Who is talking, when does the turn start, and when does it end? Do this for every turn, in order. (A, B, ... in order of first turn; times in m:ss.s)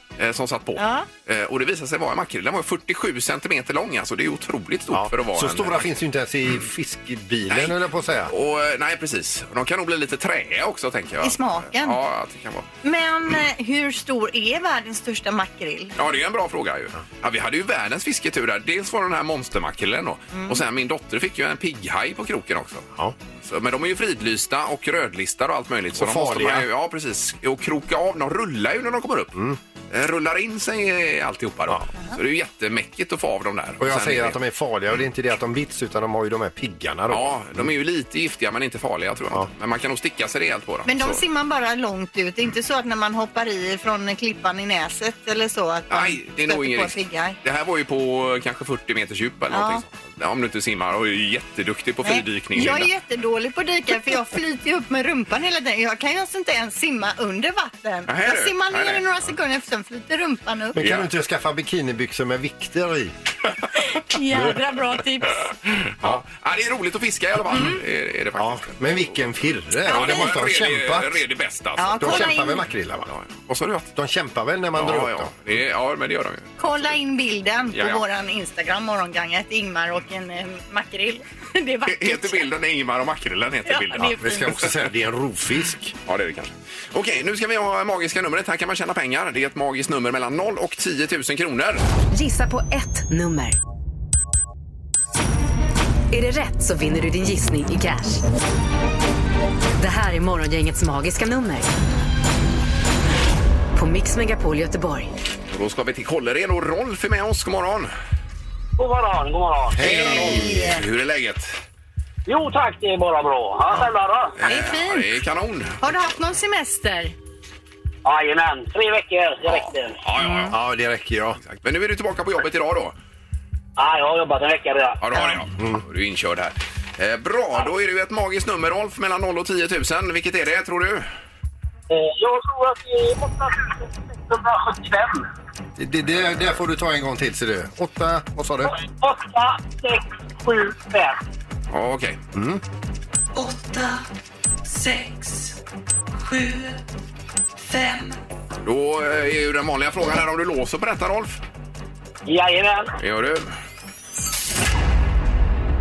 0:00.2-0:05.9 A
0:00.8-0:01.1 B
0:04.9-0:08.3 C
0:07.5-0:07.8 A
0:08.3-0:12.7 A
0:11.2-0:12.0 B
0:12.8-0:15.9 B
0:16.0-0:22.9 A
0:20.3-0:20.6 B
0:23.4-0:29.4 A
0:26.0-0:26.7 C
0:29.9-0:34.4 A
0:33.8-0:37.7 C
0:37.1-0:41.2 A
0:40.8-0:47.4 B
0:45.9-0:52.9 A
0:49.5-0:49.8 B
0:52.0-1:00.8 B
0:58.1-0:59.0 A
1:00.7-1:03.1 C
1:00.8-1:01.1 A
1:03.8-1:05.4 B
1:05.6-1:09.1 A
1:07.5-1:07.8 B
1:08.4-1:11.2 C
1:09.8-1:10.3 B
1:09.9-1:12.4 A
1:11.8-1:12.6 B
1:12.0-1:13.1 C
1:13.0-1:13.9 A
1:13.9-1:15.3 C
1:14.7-1:16.5 A
1:16.6-1:22.5 B
1:17.7-1:18.0 A
1:21.8-1:24.5 A
1:23.6-1:24.6 B
1:24.2-1:25.9 C
1:26.0-1:31.8 A
1:32.1-1:33.6 D
1:36.1-1:38.2 D
1:39.8-1:41.7 D
1:43.7-1:45.1 D
1:45.5-1:47.9 A
1:48.8-1:49.8 E
1:49.7-1:50.8 C
1:49.8-1:51.6 A
1:49.9-1:50.8 B
1:52.2-1:54.4 E
1:54.4-1:55.8 A
1:54.4-1:55.1 B
1:55.8-1:57.1 B
1:58.0-2:00.0 E
1:59.4-2:00.6 A
2:00.2-2:00.5 B
2:00.5-2:01.4 C
2:01.4-2:03.0 A
2:03.8-2:05.0 E
2:05.0-2:11.1 A
2:11.9-2:15.3 E
2:15.8-2:18.8 C
2:18.6-2:21.2 E
2:21.7-2:22.2 A
2:22.3-2:22.6 C
2:23.3-2:24.0 F
2:24.6-2:25.6 F
2:26.2-2:26.8 F
2:27.6-2:28.2 F
2:28.6-2:31.4 A
2:32.2-2:33.0 E
2:33.0-2:33.5 A